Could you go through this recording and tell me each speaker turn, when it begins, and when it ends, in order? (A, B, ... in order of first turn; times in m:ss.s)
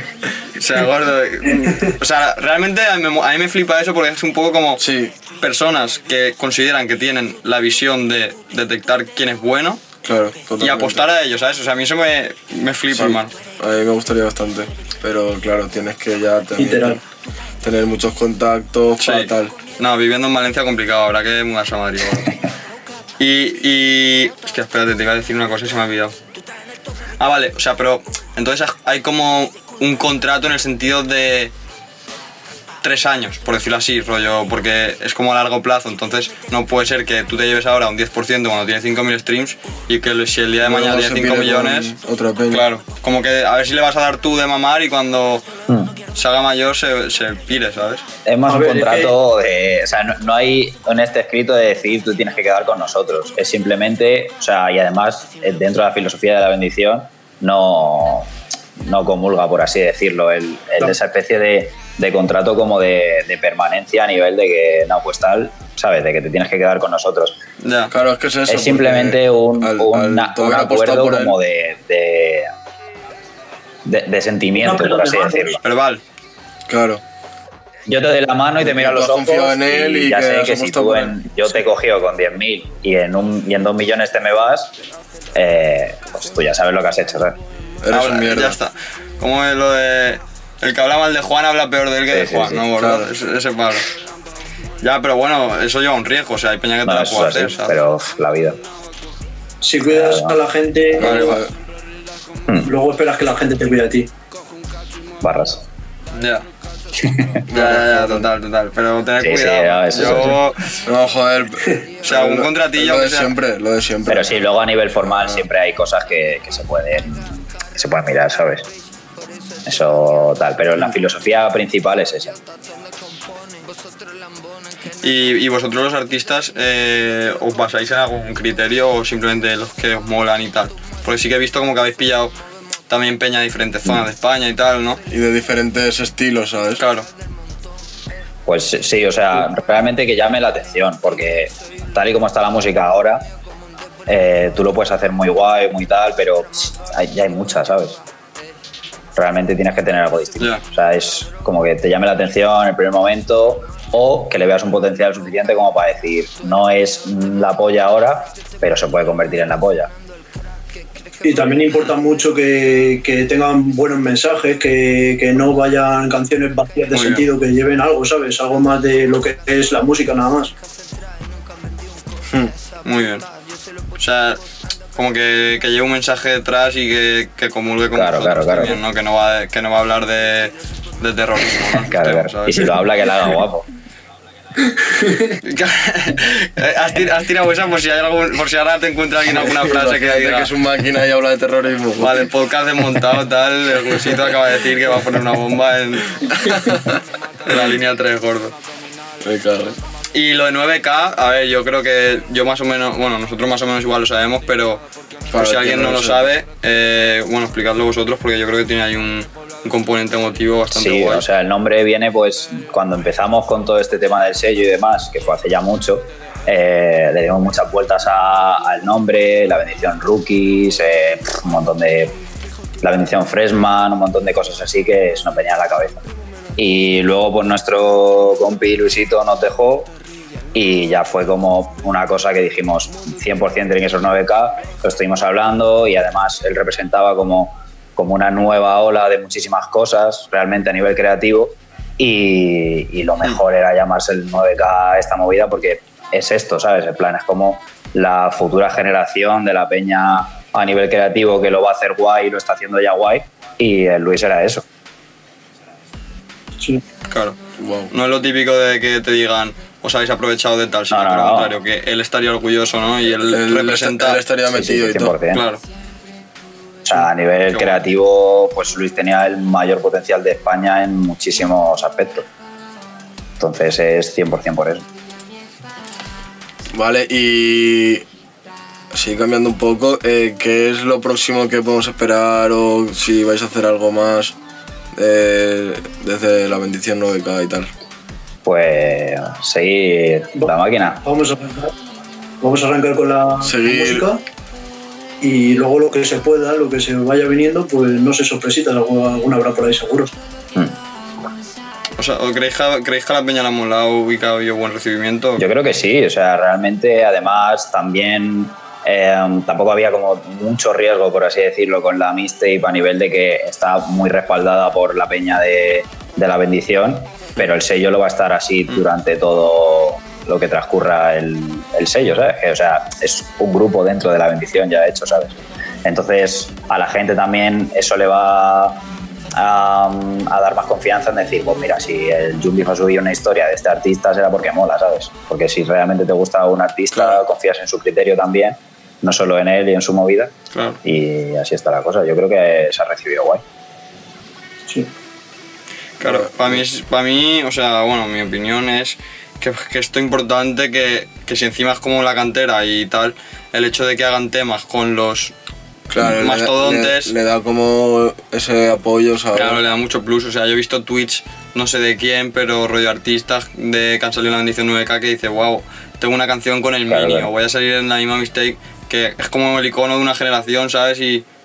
0:00.6-0:04.8 A
0:04.8-0:05.1 B
0:05.4-0:09.8 A
0:10.0-0:11.0 B
0:10.6-0:13.3 A
0:12.9-0:17.0 B
0:16.6-0:17.0 C
0:17.6-0:19.5 B
0:19.0-0:22.3 A
0:23.2-0:26.1 A
0:27.2-0:31.5 A
0:32.8-0:41.9 A
0:40.6-0:42.6 B
0:42.5-0:45.4 A
0:45.7-0:45.9 D
0:46.1-0:48.0 A
0:48.2-1:07.4 D
0:48.5-0:49.1 C
1:07.6-1:07.9 A
1:07.9-1:11.3 B
1:08.5-1:12.5 D
1:13.8-1:15.6 D
1:14.6-1:15.6 C
1:15.6-1:16.0 A
1:16.7-1:17.0 B
1:17.9-1:24.7 D
1:18.6-1:21.2 B
1:25.3-1:27.4 D
1:27.8-1:28.6 B
1:27.9-1:33.9 A
1:32.1-1:32.6 D
1:32.8-1:33.1 B
1:34.8-1:37.8 A
1:36.8-1:38.6 D
1:39.6-1:41.4 C
1:39.8-1:40.4 D
1:41.0-1:41.5 B
1:41.0-1:41.4 A
1:42.6-1:44.1 C
1:45.2-1:45.6 D
1:46.1-1:46.4 A
1:47.0-1:47.4 D
1:47.5-1:48.3 B
1:47.5-1:50.8 A
1:49.2-1:50.5 D
1:50.0-1:50.3 B
1:50.8-1:54.4 B
1:52.0-1:53.3 A
1:54.1-1:58.7 D
1:59.6-2:02.4 D
2:05.0-2:12.3 A
2:12.9-2:15.0 A
2:15.1-2:16.8 B
2:16.8-2:17.1 A
2:18.4-2:23.2 D
2:24.1-2:28.0 D
2:29.2-2:39.9 D
2:41.2-2:50.5 C
2:46.9-2:47.2 A
2:52.8-2:53.2 A
2:54.0-2:54.4 A
2:55.0-3:02.8 A
2:57.9-2:58.8 D
3:01.8-3:03.7 D
3:05.0-3:05.3 C
3:05.4-3:10.5 A
3:09.2-3:12.1 B
3:12.0-3:16.2 A
3:16.3-3:17.0 B
3:17.4-3:18.5 A
3:19.2-3:19.8 B
3:20.1-3:24.8 A
3:25.3-3:26.3 B
3:25.3-3:31.2 A
3:30.7-3:42.2 D
3:42.8-3:46.0 D
3:46.6-3:49.9 D
3:50.5-4:14.6 D
4:17.1-4:17.4 A
4:17.6-4:17.9 B
4:17.9-4:24.2 A
4:20.9-4:21.6 D
4:23.3-4:25.1 B
4:24.5-4:25.4 D
4:25.3-4:25.6 A
4:26.8-4:32.3 D
4:27.5-4:27.8 A
4:33.4-4:34.8 D
4:36.7-4:38.0 B
4:38.9-4:44.3 B
4:45.0-4:47.7 B
4:48.4-4:51.0 D
4:51.0-4:51.7 C
4:52.4-4:54.2 C
4:53.4-4:54.1 B
4:55.2-5:00.1 C
5:02.0-5:05.4 A
5:05.4-5:28.8 D
5:29.3-5:40.3 D
5:36.9-5:37.2 B
5:40.5-5:40.8 A
5:40.8-5:43.4 D
5:46.0-5:55.3 A
5:46.0-5:46.6 B
5:55.9-5:59.6 B
5:56.0-5:57.1 A
5:59.3-6:11.2 A
6:06.9-6:07.3 D